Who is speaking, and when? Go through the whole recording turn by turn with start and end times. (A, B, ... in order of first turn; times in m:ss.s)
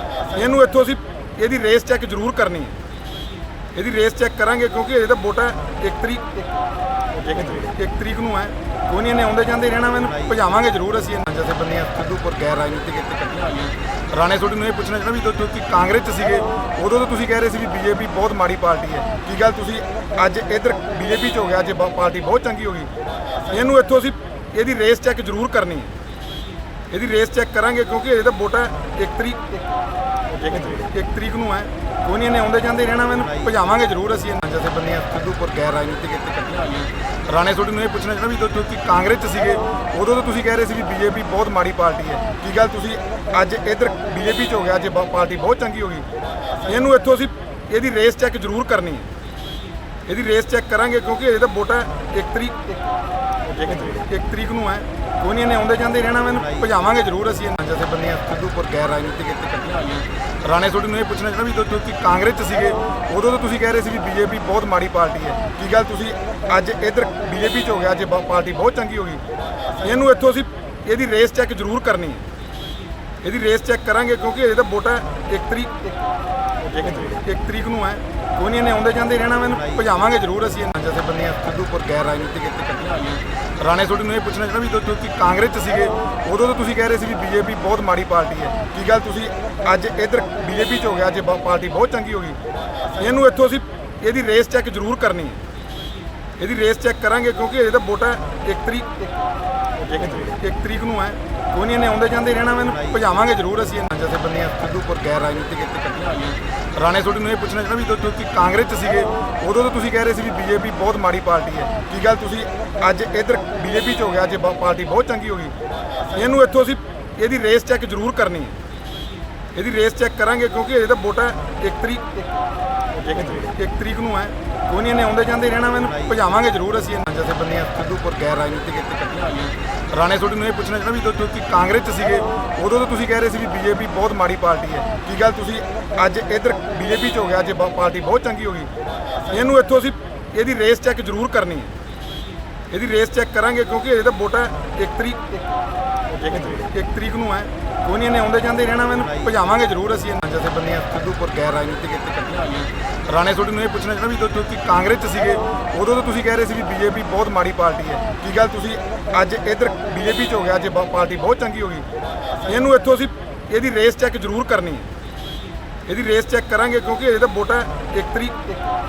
0:00.3-0:02.8 A
0:03.7-0:06.4 A
0:07.3-0:22.9 A
0:23.4-0:25.9 A
0:26.9-0:29.6 A
0:30.5-0:49.1 A
0:50.1-0:52.7 A
0:53.6-1:09.2 A
1:09.8-1:12.2 A
1:13.2-1:15.9 A
1:16.8-1:35.4 A
1:36.4-1:39.0 A
1:39.9-1:55.6 A
1:56.1-1:58.6 A
1:59.6-2:02.2 A
2:03.1-2:21.7 A
2:22.7-2:25.4 A
2:26.2-2:41.9 A
2:42.4-2:44.9 A
2:45.9-2:48.5 A